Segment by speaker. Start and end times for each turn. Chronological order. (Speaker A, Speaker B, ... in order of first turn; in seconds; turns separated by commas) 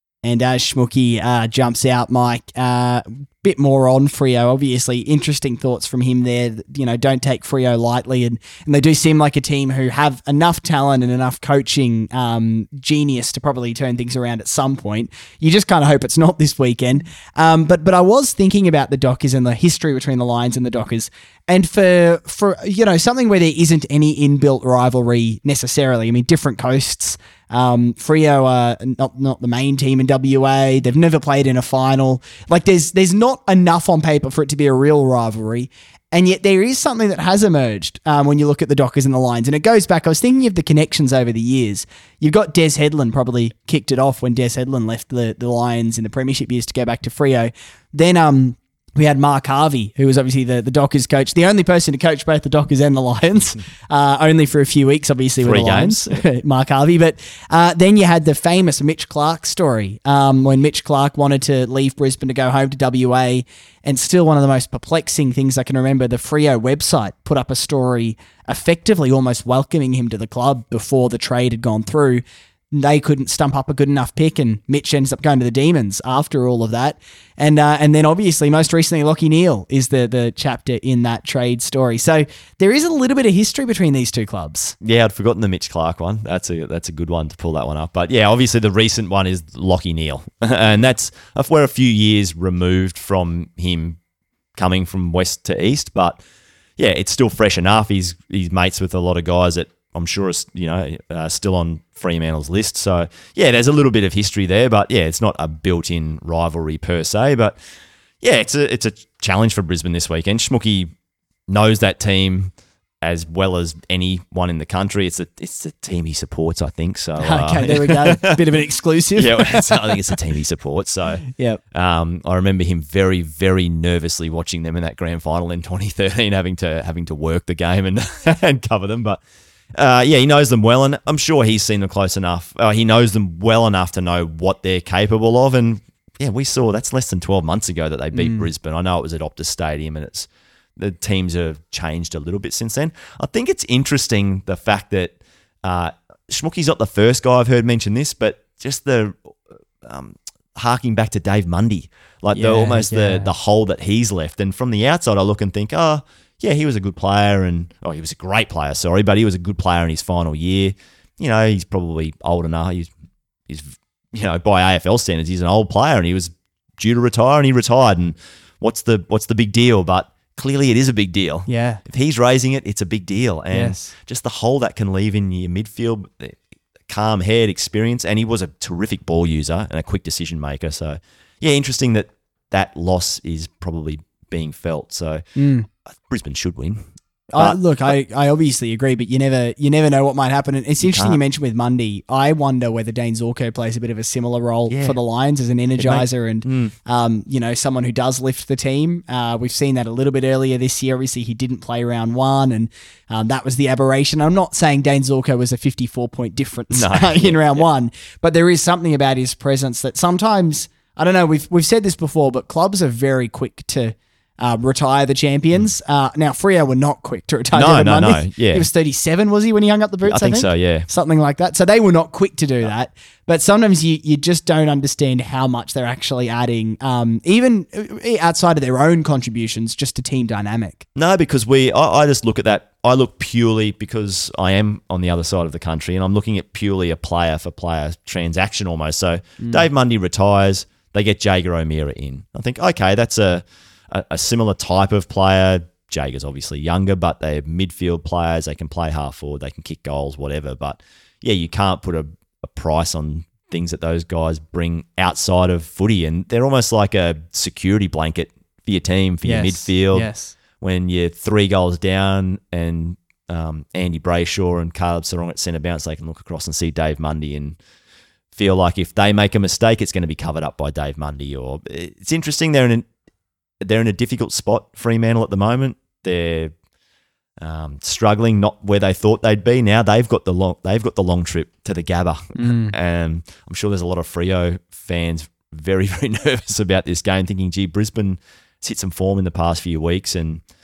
Speaker A: 0.2-84.8, Speaker B: 55.4-56.2, Speaker B: 84.8-94.0, Speaker B: 94.5-96.2, Speaker B: 96.8-107.6, Speaker B: 108.2-110.9, Speaker B: 111.5-118.4, Speaker A: 117.2-120.0, Speaker B: 119.2-129.2, Speaker A: 121.3-121.6, Speaker B: 129.7-162.9, Speaker A: 138.2-138.5, Speaker A: 152.3-153.3, Speaker B: 163.5-185.2, Speaker A: 171.5-171.8, Speaker A: 173.5-173.9, Speaker A: 185.3-185.7, Speaker B: 186.0-187.6, Speaker A: 187.3-230.8, Speaker B: 190.8-191.2, Speaker B: 194.7-195.0, Speaker B: 195.8-196.7, Speaker B: 206.7-207.6, Speaker B: 217.5-218.7, Speaker B: 220.0-220.9, Speaker B: 230.9-260.1, Speaker A: 239.4-239.7, Speaker A: 259.2-260.3, Speaker B: 260.6-267.6, Speaker B: 268.3-272.9, Speaker B: 273.6-276.5, Speaker B: 277.4-290.4, Speaker A: 282.4-282.7